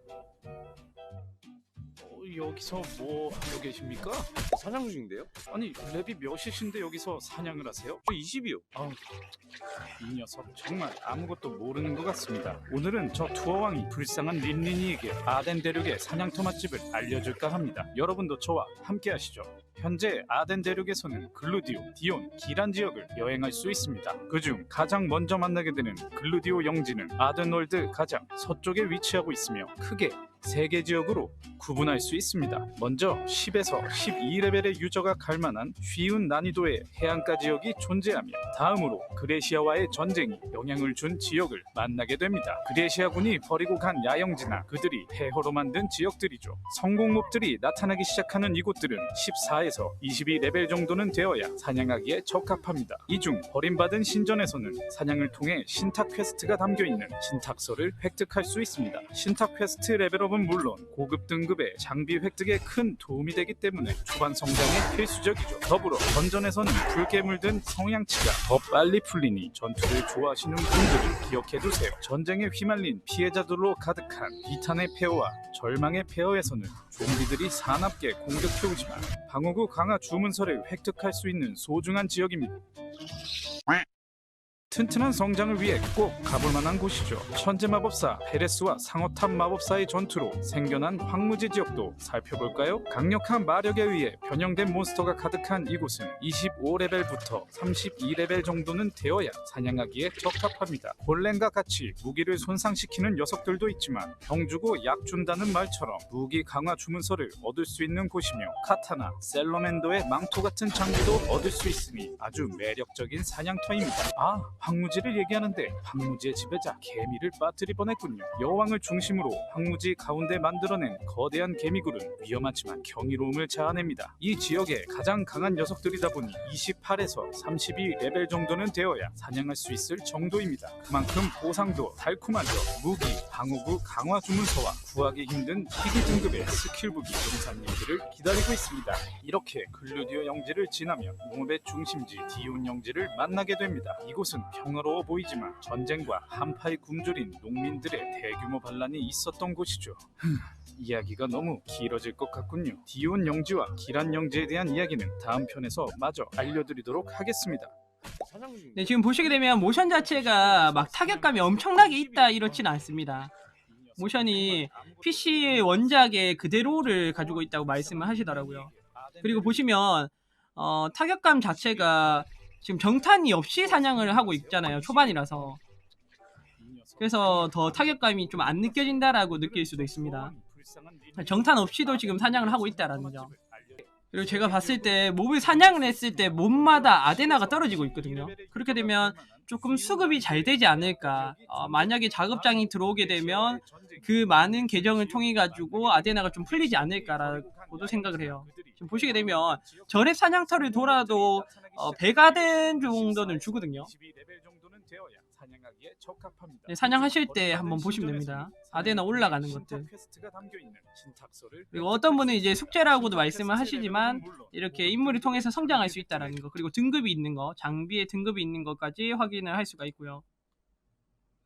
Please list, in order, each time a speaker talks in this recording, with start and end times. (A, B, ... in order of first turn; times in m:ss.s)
0:02.0-0:04.4 A
0:04.5-0:05.3 B
0:05.5-0:08.0 A
0:08.1-0:08.7 B
0:08.7-0:09.0 A
0:10.0-1:22.6 A
1:24.7-2:37.7 A
2:38.2-2:39.1 B
2:38.7-2:43.3 C
2:39.2-2:42.8 A
2:43.6-2:49.8 A
2:44.0-2:48.7 C
2:49.2-2:55.6 C
2:51.3-2:52.3 A
2:53.2-2:55.5 A
2:56.6-3:36.5 A
2:57.0-3:00.3 C
3:01.2-3:03.3 C
3:04.1-3:23.9 C
3:26.7-3:29.9 C
3:31.7-3:40.2 C